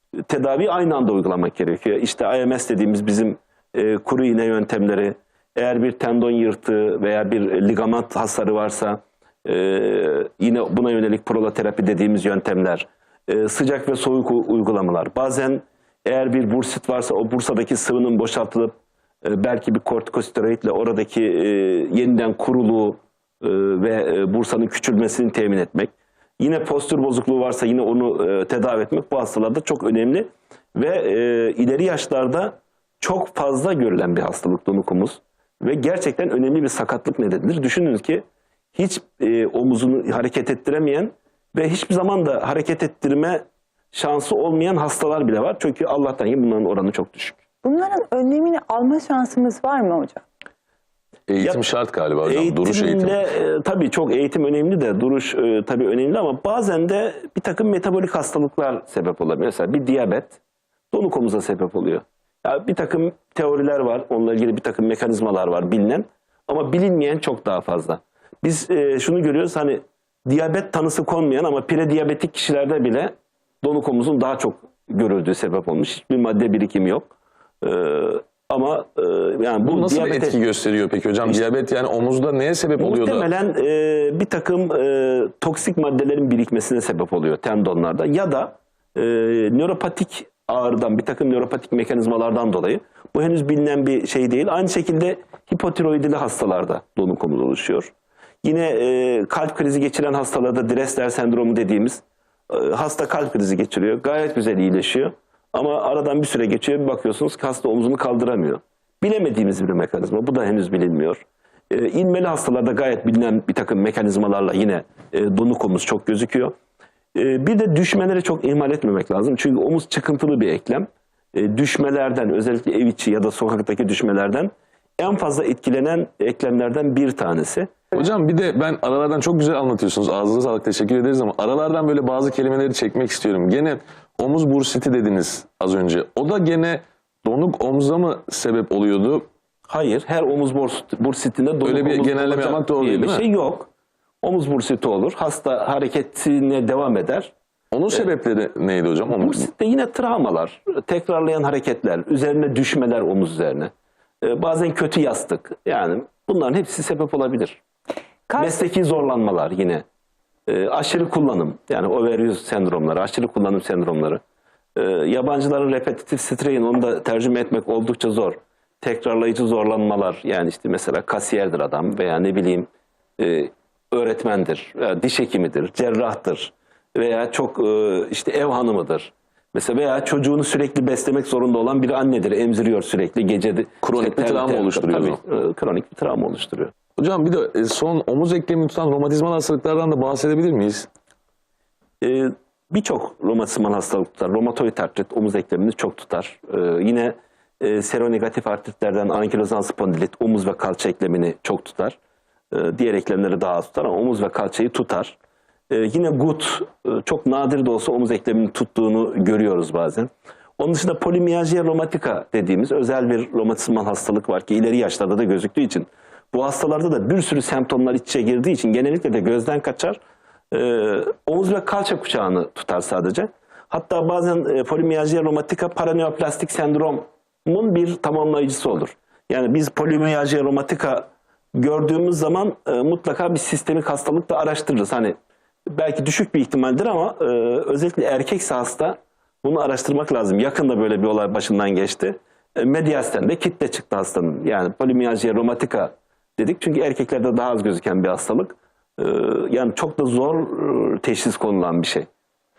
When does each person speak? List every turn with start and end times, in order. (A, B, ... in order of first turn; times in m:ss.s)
0:00.3-0:18.7 A
0:19.2-0:30.2 A
0:30.8-0:38.2 A
0:38.8-0:43.4 A
0:43.9-0:47.4 A
0:47.6-0:50.2 B
0:51.3-0:53.3 C
0:51.4-0:51.7 A
0:52.2-1:00.4 A
1:00.9-1:13.1 A
1:13.6-1:17.1 A
1:17.6-1:20.4 A
1:19.6-1:23.3 C
1:22.8-1:37.9 A
1:38.4-1:51.2 A
1:51.7-1:56.5 A
1:57.2-2:07.8 A
2:07.9-2:19.3 C
2:19.7-2:23.6 A
2:21.6-2:23.2 C
2:24.2-2:27.3 A
2:27.7-2:29.5 C
2:29.2-2:33.7 A
2:34.2-2:37.6 A
2:38.3-2:38.7 B
2:38.4-2:39.8 A
2:40.5-2:44.2 A
2:44.8-2:52.7 A
2:53.2-3:06.7 A
3:03.8-3:05.2 C
3:07.0-3:10.9 C
3:12.0-3:22.0 A
3:22.5-3:25.1 A
3:25.7-3:30.1 A
3:30.6-3:40.0 A
3:40.5-3:55.2 A
3:55.7-4:12.1 A